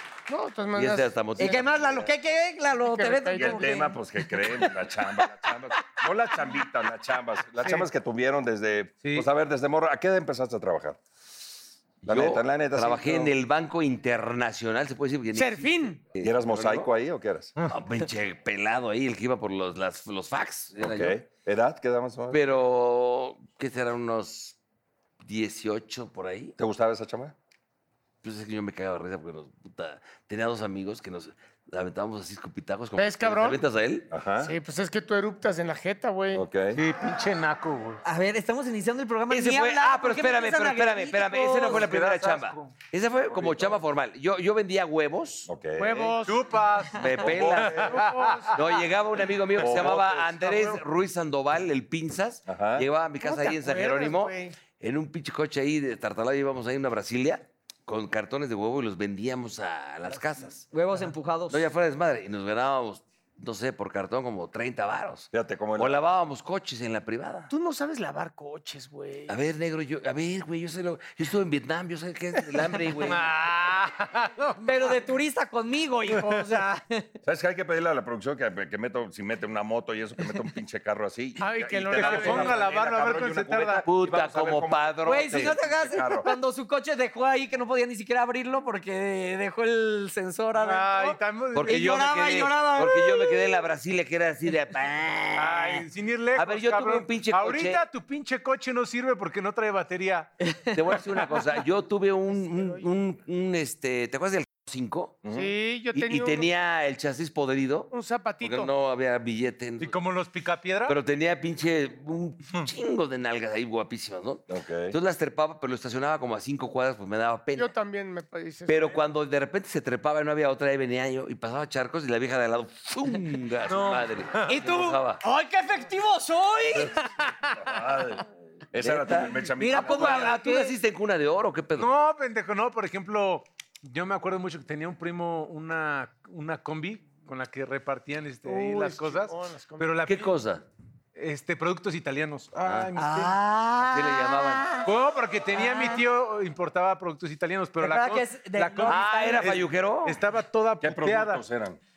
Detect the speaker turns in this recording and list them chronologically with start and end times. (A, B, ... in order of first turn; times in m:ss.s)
0:00.3-0:01.6 A
0:00.7-0:01.7 B
0:01.4-0:04.0 C
0:01.8-0:02.1 D
0:03.0-0:03.7 A
0:03.3-0:11.0 D
0:07.6-0:07.9 E
0:09.0-0:09.3 E
0:12.0-0:16.9 B
0:12.0-0:13.3 D
0:15.4-0:16.0 A
0:16.2-0:17.5 D
0:17.7-0:21.2 B
0:20.8-0:22.4 D
0:22.3-0:24.6 B
0:25.2-0:26.6 B
0:26.6-0:27.3 D
0:28.2-0:34.1 B
0:33.0-0:33.6 A
0:34.1-0:34.5 D
0:34.4-0:36.6 A
0:36.3-0:36.8 D
0:36.7-0:38.0 E
0:38.0-0:41.8 C
0:39.3-0:45.5 B
0:41.6-0:42.7 E
0:41.8-0:42.4 D
0:43.3-0:43.8 D
0:45.5-0:46.2 D
0:45.8-0:46.4 A
0:46.2-0:48.6 E
0:47.0-0:48.0 B
0:47.2-0:47.9 D
0:47.5-0:48.8 A
0:48.5-1:00.7 B
0:49.6-0:50.4 D
0:49.6-0:50.0 E
0:49.8-0:50.0 A
0:52.5-0:52.9 D
0:53.2-0:54.6 A
1:00.7-1:01.6 C
1:01.5-1:07.5 B
1:05.3-1:06.0 D
1:07.5-1:09.4 A
1:09.3-1:13.3 B
1:12.6-1:15.0 E
1:14.6-1:17.1 C
1:16.1-1:16.4 E
1:17.2-1:26.4 D
1:21.4-1:22.6 A
1:21.9-1:23.9 E
1:23.9-1:25.6 B
1:25.0-1:33.5 C
1:30.6-1:32.5 E
1:31.5-1:37.8 B
1:35.4-1:40.3 E
1:40.4-1:41.4 C
1:40.7-1:45.2 B
1:45.2-1:45.5 D
1:45.3-1:46.5 A
1:45.9-1:50.0 B
1:47.9-1:48.7 A
1:49.8-1:51.0 E
1:50.9-1:57.7 B
1:54.5-1:55.0 D
1:57.6-1:59.0 A
1:58.7-2:05.2 B
2:03.7-2:04.6 E
2:04.5-2:07.7 C
2:07.6-2:10.3 D
2:08.8-2:11.9 B
2:09.6-2:10.8 C
2:11.8-2:20.3 E
2:18.5-2:20.3 A
2:20.1-2:20.6 B
2:21.2-2:23.4 E
2:22.6-2:22.9 B
2:23.0-2:24.9 C
2:23.8-2:24.7 B
2:24.8-2:31.4 E
2:25.5-2:26.0 C
2:27.8-2:29.6 C
2:28.9-2:30.2 B
2:30.8-2:31.8 D